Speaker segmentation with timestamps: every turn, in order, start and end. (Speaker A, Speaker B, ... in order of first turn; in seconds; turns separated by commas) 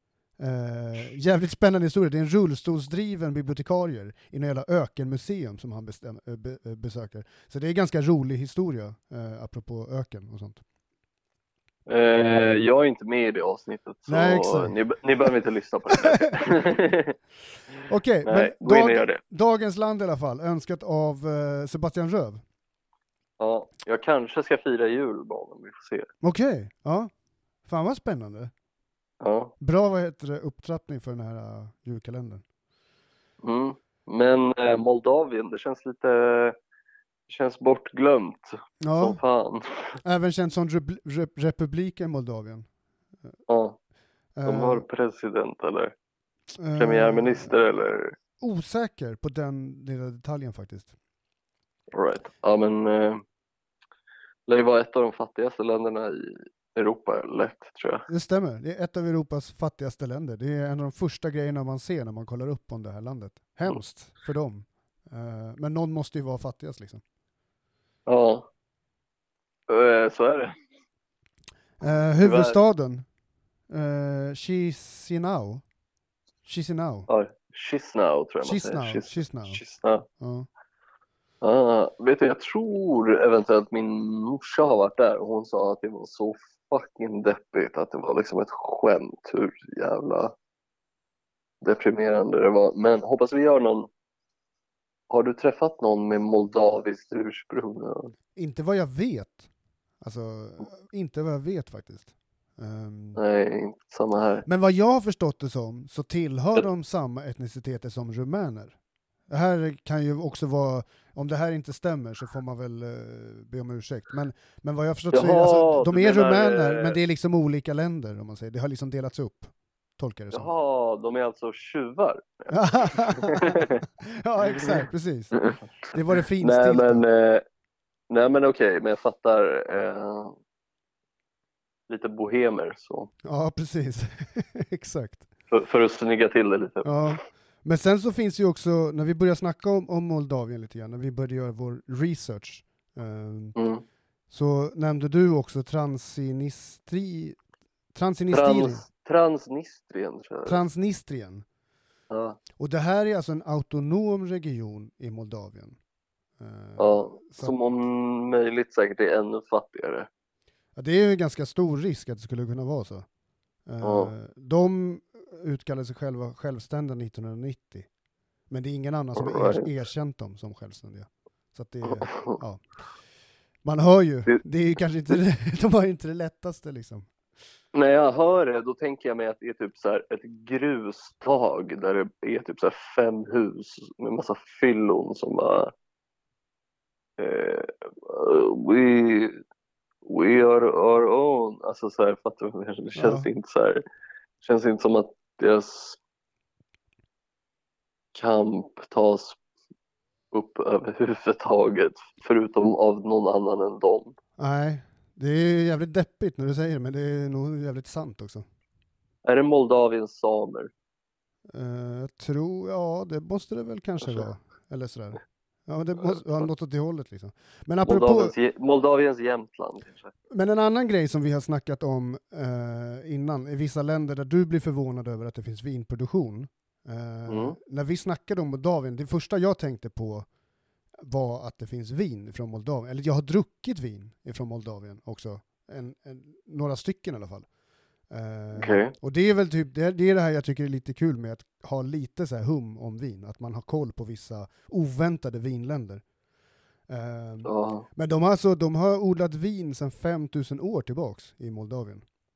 Speaker A: 0.4-10.6, Speaker B: 11.9-17.2, Speaker A: 14.1-14.8, Speaker A: 15.9-16.4, Speaker A: 17.9-22.4, Speaker B: 18.2-19.2, Speaker B: 23.4-26.1, Speaker A: 26.2-27.1, Speaker A: 27.7-28.5, Speaker B: 29.2-29.5, Speaker A: 29.6-32.4, Speaker B: 33.4-36.5, Speaker B: 37.3-40.0, Speaker A: 38.8-39.2, Speaker A: 40.0-42.7, Speaker B: 43.5-43.8, Speaker A: 44.4-44.9, Speaker B: 44.5-45.9, Speaker A: 46.6-47.6, Speaker B: 46.8-48.1, Speaker A: 48.4-50.9, Speaker B: 51.9-53.2, Speaker B: 54.5-58.1, Speaker A: 58.1-67.0, Speaker B: 68.1-68.5, Speaker B: 69.7-70.5, Speaker A: 71.8-73.1, Speaker B: 72.2-72.6, Speaker A: 73.7-75.6, Speaker A: 76.5-77.1, Speaker B: 77.1-80.1, Speaker A: 78.4-79.6, Speaker A: 80.2-80.5, Speaker B: 81.4-90.3, Speaker B: 91.6-93.9, Speaker B: 95.1-98.1, Speaker A: 98.4-99.5, Speaker A: 100.0-103.2, Speaker B: 103.2-104.5, Speaker A: 104.5-108.8, Speaker A: 109.3-120.5, Speaker B: 115.1-117.0, Speaker B: 120.3-123.8, Speaker A: 122.5-127.0, Speaker B: 126.4-127.4, Speaker B: 128.1-130.4, Speaker B: 131.9-133.1, Speaker A: 133.2-135.3, Speaker B: 135.5-137.2, Speaker A: 136.8-143.6, Speaker B: 143.6-143.8, Speaker A: 144.3-147.4, Speaker A: 147.9-148.9, Speaker B: 148.3-150.6, Speaker A: 150.5-151.4, Speaker B: 152.1-152.4, Speaker A: 152.6-155.8, Speaker A: 156.4-157.6, Speaker B: 156.8-160.1, Speaker A: 160.8-163.1, Speaker A: 163.7-167.9, Speaker B: 163.8-164.1, Speaker A: 168.5-172.6, Speaker B: 169.2-169.7, Speaker B: 171.9-172.4, Speaker A: 173.6-177.1, Speaker B: 177.7-185.7, Speaker B: 187.2-189.4, Speaker B: 190.1-193.8, Speaker A: 192.9-193.3, Speaker B: 194.4-196.0, Speaker B: 198.1-199.4, Speaker B: 200.3-204.2, Speaker A: 204.4-208.4, Speaker B: 209.2-210.7, Speaker A: 211.5-218.3, Speaker B: 216.0-216.5, Speaker B: 217.8-220.1, Speaker A: 220.3-230.3, Speaker B: 227.3-227.6, Speaker A: 231.0-237.5, Speaker A: 238.1-246.0, Speaker B: 238.5-238.9, Speaker A: 246.9-252.0, Speaker B: 247.4-247.9